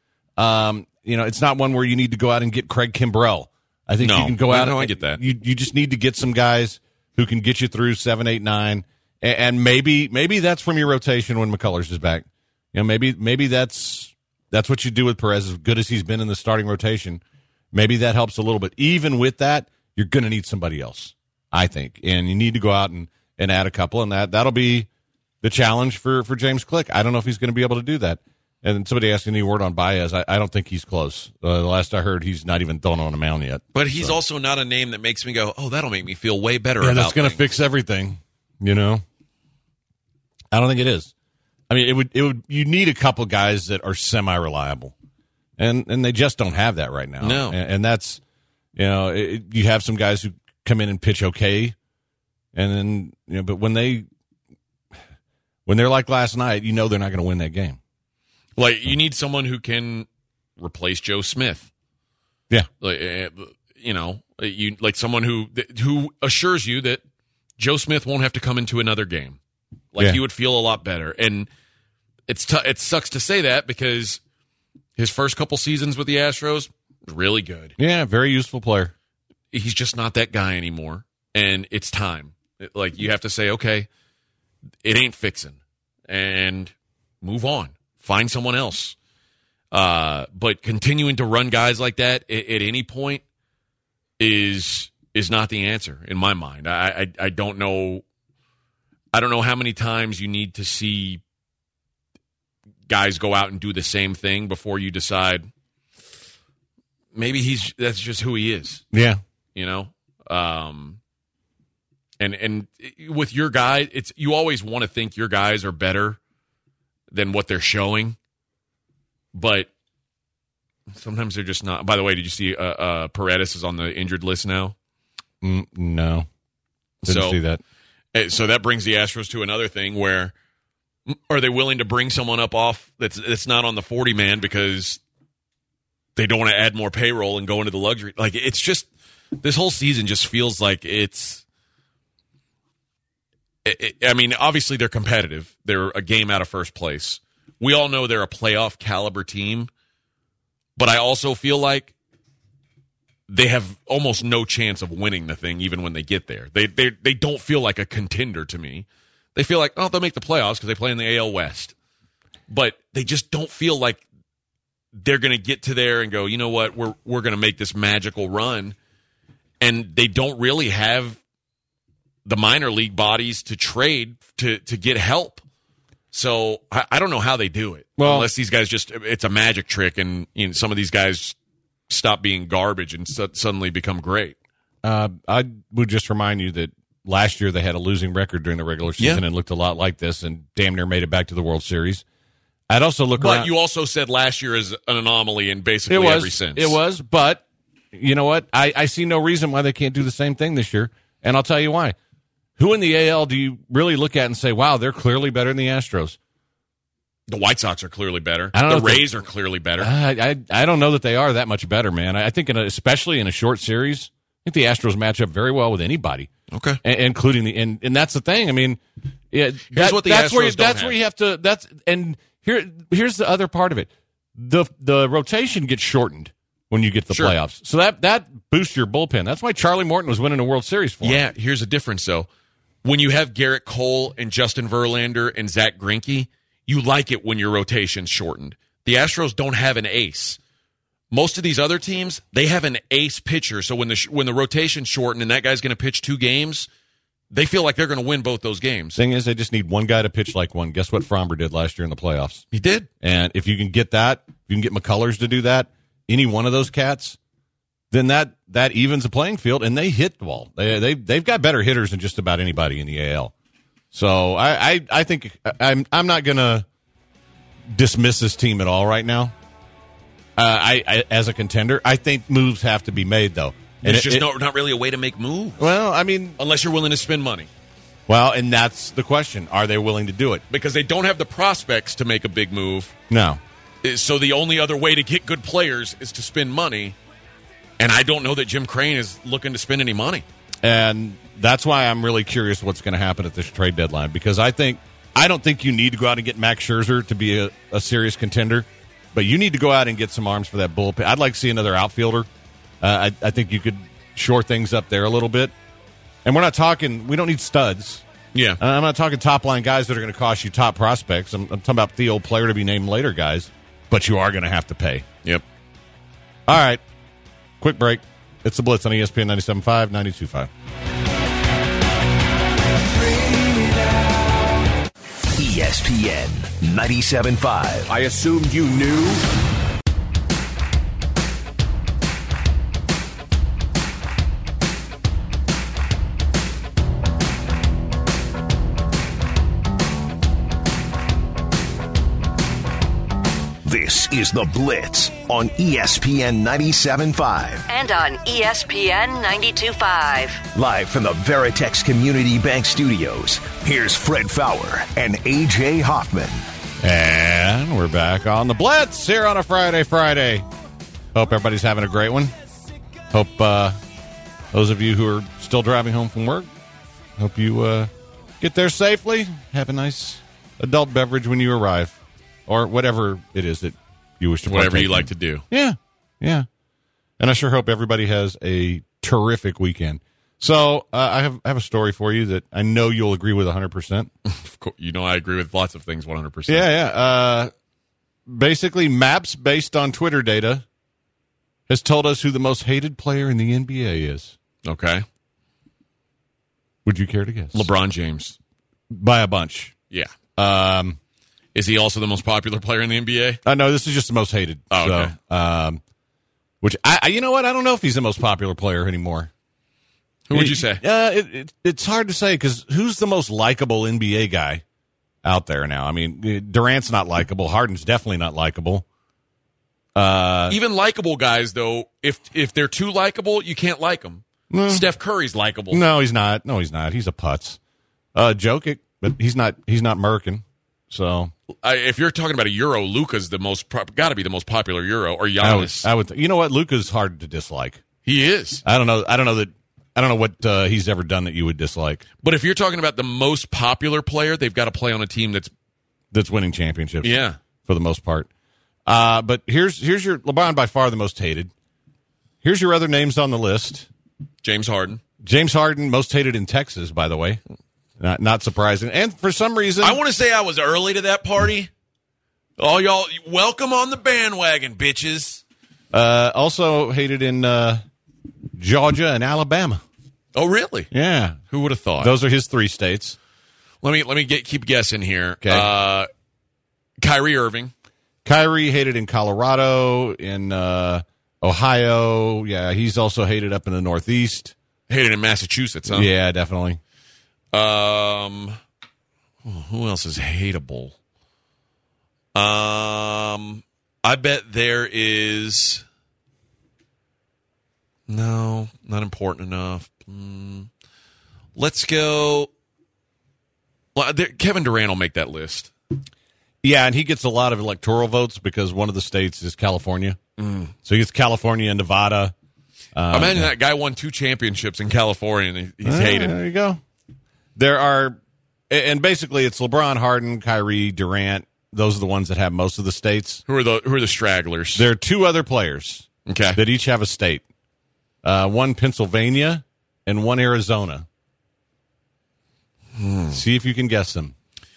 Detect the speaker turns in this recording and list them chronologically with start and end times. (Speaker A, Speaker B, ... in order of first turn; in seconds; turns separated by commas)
Speaker A: 0.4-17.2, Speaker B: 4.0-5.2, Speaker A: 17.7-24.9, Speaker A: 25.4-34.2, Speaker B: 33.7-37.5, Speaker A: 36.8-39.0, Speaker A: 40.5-41.1, Speaker A: 41.7-44.9, Speaker A: 45.6-48.2, Speaker B: 47.2-47.6, Speaker A: 48.8-51.8, Speaker A: 52.5-54.1, Speaker A: 55.6-57.8, Speaker B: 58.6-60.1, Speaker B: 60.6-61.7, Speaker B: 62.8-67.0, Speaker B: 67.6-69.4, Speaker B: 69.9-71.5, Speaker B: 72.3-74.2, Speaker B: 75.0-77.7, Speaker A: 77.8-78.9, Speaker B: 79.5-83.9, Speaker B: 84.8-89.0, Speaker B: 89.7-93.2, Speaker B: 94.2-98.0, Speaker B: 99.1-101.2, Speaker B: 102.9-105.5, Speaker B: 107.1-108.8, Speaker A: 108.9-109.2, Speaker B: 109.5-111.0, Speaker B: 112.2-116.2, Speaker B: 117.1-118.2, Speaker B: 119.3-119.7, Speaker B: 120.9-124.7, Speaker A: 125.4-126.3, Speaker B: 127.0-127.4, Speaker A: 127.0-127.6, Speaker B: 128.1-130.3, Speaker B: 131.1-135.0, Speaker B: 136.2-138.9, Speaker B: 139.4-141.4, Speaker B: 143.6-149.7, Speaker B: 150.8-151.9, Speaker B: 153.3-161.7, Speaker B: 162.5-164.0, Speaker B: 164.9-168.7, Speaker B: 169.6-171.2, Speaker B: 172.2-175.4, Speaker B: 176.1-181.3, Speaker A: 178.0-178.3, Speaker B: 181.9-184.3, Speaker A: 184.8-192.0, Speaker A: 192.7-193.5, Speaker B: 193.2-196.8, Speaker A: 195.9-201.9, Speaker A: 202.6-206.2, Speaker B: 207.3-209.9, Speaker A: 208.5-209.1, Speaker A: 209.8-216.3, Speaker B: 216.5-216.8, Speaker A: 216.8-231.2, Speaker B: 219.7-220.9, Speaker B: 231.0-232.3, Speaker B: 232.8-240.4, Speaker B: 241.1-246.7, Speaker B: 247.3-249.0, Speaker A: 248.9-252.4, Speaker B: 252.5-252.9, Speaker A: 253.0-257.2, Speaker A: 257.9-263.3, Speaker A: 263.9-266.6, Speaker A: 267.7-269.3, Speaker A: 270.4-274.3, Speaker B: 273.8-275.7, Speaker A: 275.6-276.4, Speaker B: 276.4-277.5, Speaker A: 278.1-280.4, Speaker B: 280.5-282.9, Speaker A: 283.1-283.4, Speaker B: 283.8-286.9, Speaker B: 287.8-290.2, Speaker A: 290.6-302.3, Speaker A: 302.8-305.5, Speaker A: 306.2-308.0, Speaker B: 308.3-308.6, Speaker A: 308.6-315.1, Speaker A: 316.5-316.8, Speaker A: 317.6-320.5, Speaker C: 323.1-324.1, Speaker D: 325.4-327.9, Speaker C: 327.9-329.2, Speaker D: 343.6-347.6, Speaker E: 347.7-350.4, Speaker D: 350.5-356.4, Speaker A: 356.8-360.4, Speaker A: 361.1-362.3, Speaker A: 363.1-363.8, Speaker A: 364.5-366.5, Speaker A: 367.2-376.5, Speaker B: 374.4-375.4, Speaker A: 377.2-384.1, Speaker B: 384.2-386.7, Speaker A: 386.5-387.5, Speaker A: 388.3-390.6, Speaker A: 391.7-394.4, Speaker B: 394.6-395.0, Speaker A: 396.8-397.7, Speaker B: 397.5-398.4, Speaker A: 398.9-399.7, Speaker A: 400.4-401.0, Speaker B: 401.5-403.4, Speaker A: 403.4-405.8, Speaker B: 404.7-405.1, Speaker A: 406.6-409.3, Speaker B: 410.3-410.8, Speaker A: 410.3-414.6, Speaker A: 415.2-418.8, Speaker A: 419.9-420.6, Speaker B: 420.5-425.8, Speaker A: 424.5-424.9, Speaker A: 425.7-427.6, Speaker A: 428.1-431.3, Speaker B: 431.6-435.9, Speaker A: 435.4-437.8, Speaker B: 438.0-438.6, Speaker A: 438.6-442.0, Speaker B: 442.2-445.5, Speaker A: 446.1-448.3, Speaker B: 447.0-447.4, Speaker A: 448.9-451.5, Speaker A: 452.4-453.9, Speaker B: 454.4-455.0, Speaker A: 455.2-457.4, Speaker A: 458.0-460.0, Speaker B: 459.8-461.7, Speaker B: 462.6-465.4, Speaker A: 465.9-467.8, Speaker A: 468.6-469.8, Speaker B: 470.3-470.9, Speaker A: 470.9-471.4, Speaker B: 471.5-472.1, Speaker A: 472.0-473.2, Speaker B: 473.8-476.1, Speaker A: 475.4-475.7, Speaker B: 477.0-477.7, Speaker A: 478.2-484.5, Speaker B: 484.9-486.1, Speaker A: 485.9-486.8, Speaker B: 487.5-488.6, Speaker B: 489.4-490.9, Speaker B: 492.3-495.8, Speaker B: 498.1-500.7, Speaker B: 501.6-502.5, Speaker B: 503.9-505.7, Speaker A: 506.6-510.2, Speaker B: 510.4-510.7, Speaker A: 510.8-512.3, Speaker A: 512.9-513.5, Speaker B: 513.1-516.4, Speaker A: 515.8-516.8, Speaker A: 517.5-518.2, Speaker A: 518.7-523.4, Speaker B: 523.5-524.9, Speaker A: 524.7-527.4, Speaker B: 526.3-526.6, Speaker A: 528.2-531.1, Speaker B: 532.9-533.4, Speaker A: 533.3-534.3